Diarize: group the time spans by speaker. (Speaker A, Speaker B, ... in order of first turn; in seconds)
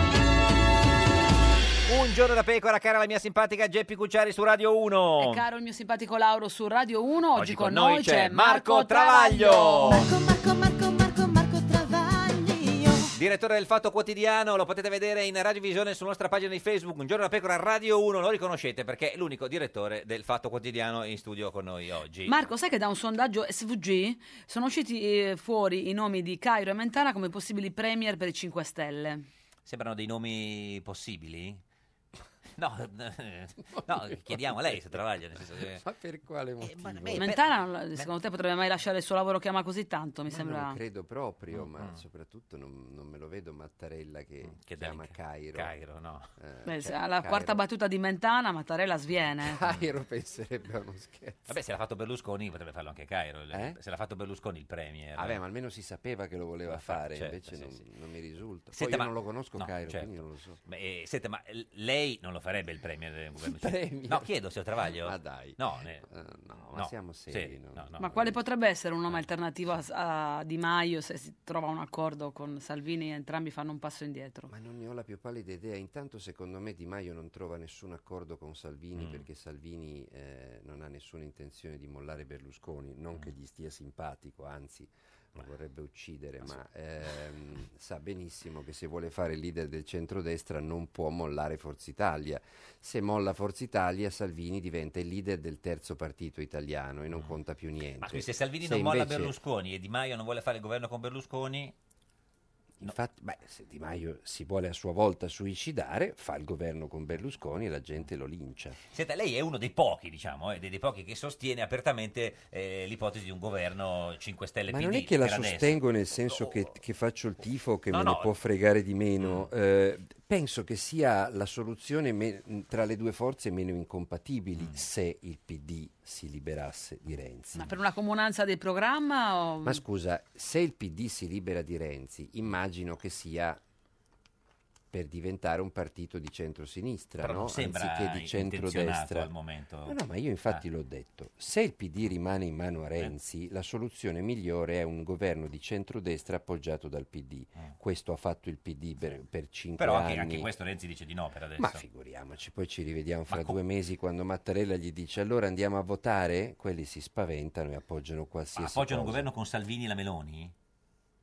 Speaker A: 1.9-5.4, 7.3-10.1, 13.1-22.5, 29.6-31.6, 32.6-35.8, 36.6-38.1, 41.5-42.0, 44.5-46.3, 51.5-55.4, 56.7-57.8, 58.7-60.1, 60.6-66.0, 66.7-68.3, 79.0-79.2, 97.1-97.4, 98.0-101.7, 108.9-116.7, 117.9-118.3, 119.2-119.5, 137.2-140.6, 149.8-151.8, 153.3-153.6, 158.6-160.5
Speaker B: 5.2-10.0, 22.3-29.2, 37.1-40.8, 46.6-49.6, 68.0-74.5, 127.5-129.8
Speaker C: 9.9-13.1
Speaker D: 33.8-34.7, 35.5-37.3, 40.3-45.7, 46.4-47.6, 49.4-51.6, 53.5-53.8, 55.1-60.6, 63.4-64.3, 64.9-68.1, 74.5-99.3, 102.8-108.8, 114.7-127.7, 129.6-133.6, 134.9-139.3, 139.9-150.5, 151.6-159.3